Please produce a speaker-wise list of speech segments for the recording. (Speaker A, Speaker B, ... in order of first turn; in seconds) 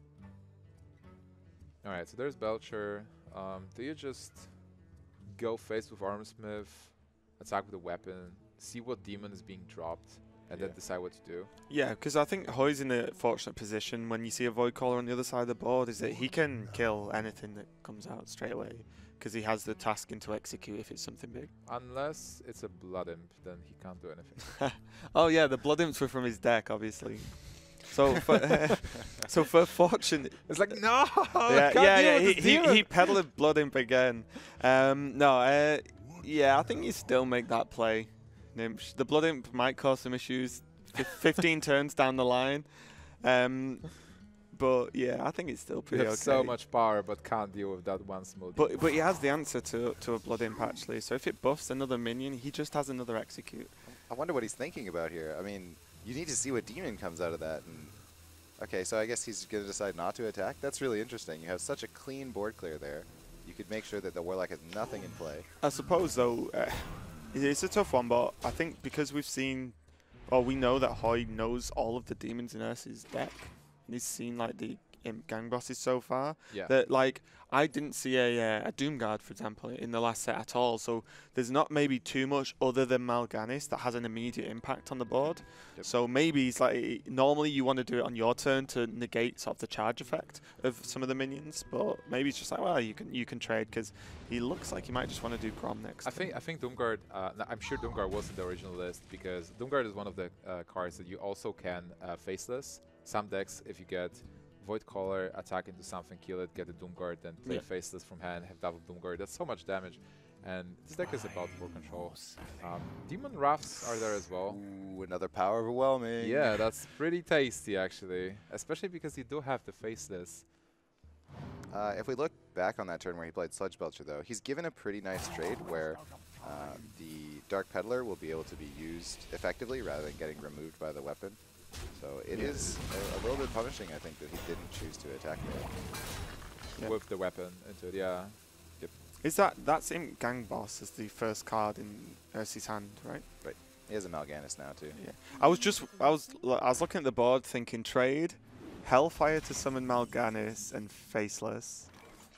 Speaker A: 1.8-11.5, 21.6-24.7, 30.5-33.2, 45.9-48.9, 76.5-76.8, 96.0-114.6, 116.2-120.5, 136.8-138.4
Speaker B: 10.5-10.8, 53.9-65.5, 114.5-116.7, 121.7-136.0, 143.4-145.0
Speaker C: 11.7-21.5, 24.9-46.6, 48.5-53.8, 65.6-96.4, 132.3-132.7, 136.8-137.0, 139.2-143.3, 145.0-152.2